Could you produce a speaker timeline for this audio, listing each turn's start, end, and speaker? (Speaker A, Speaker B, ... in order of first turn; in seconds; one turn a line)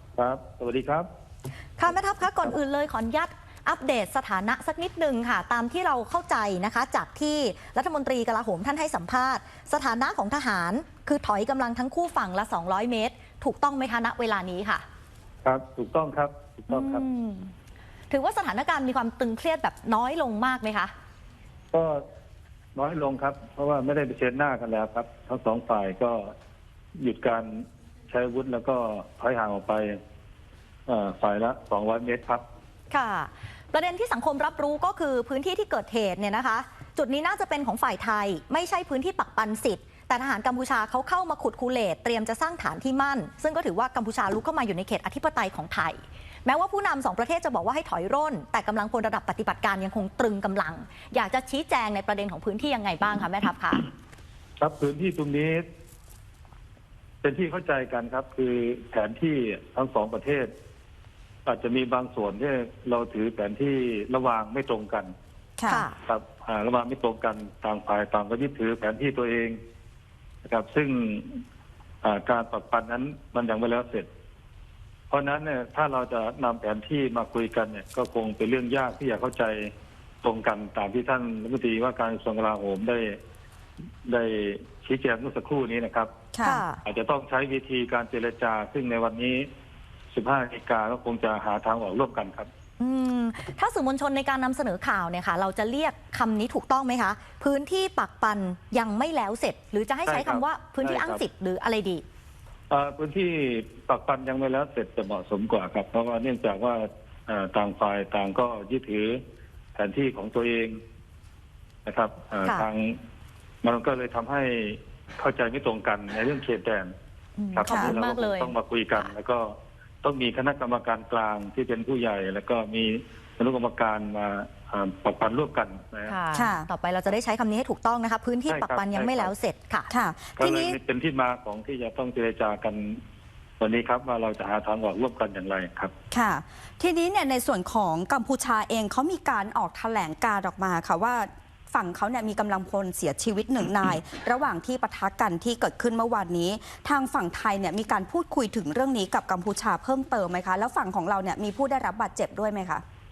Speaker A: 0.1-1.1
Speaker B: 1.8-14.8
Speaker A: 15.4-17.1
Speaker B: 16.7-17.5
Speaker B: 18.1-20.9
Speaker A: 21.7-22.0
Speaker A: 22.8-26.3
Speaker A: 26.9-30.0
Speaker A: 30.9-32.4
Speaker B: 32.9-53.9
Speaker A: 54.6-55.6
Speaker A: 57.2-60.5
Speaker A: 61.5-65.1
Speaker C: 65.6-65.8
Speaker B: 65.7-66.0
Speaker A: 66.0-69.6
Speaker A: 70.4-71.4
Speaker A: 72.0-74.1
Speaker A: 75.1-79.7
Speaker A: 80.2-83.2
Speaker A: 84.0-86.1
Speaker C: 86.3-86.6
Speaker B: 86.4-86.8
Speaker A: 86.8-89.5
Speaker A: 90.1-92.5
Speaker B: 92.8-102.0
Speaker A: 100.1-101.2
Speaker A: 102.7-109.2
Speaker A: 109.7-110.8
Speaker A: 111.8-113.0
Speaker A: 113.6-116.9
Speaker B: 117.4-119.1
Speaker A: 117.5-126.2
Speaker C: 117.7-117.9
Speaker B: 126.1-129.9
Speaker C: 126.3-126.7
Speaker A: 128.5-129.3
Speaker C: 129.9-130.8
Speaker A: 130.4-133.0
Speaker A: 133.6-135.9
Speaker C: 136.1-152.8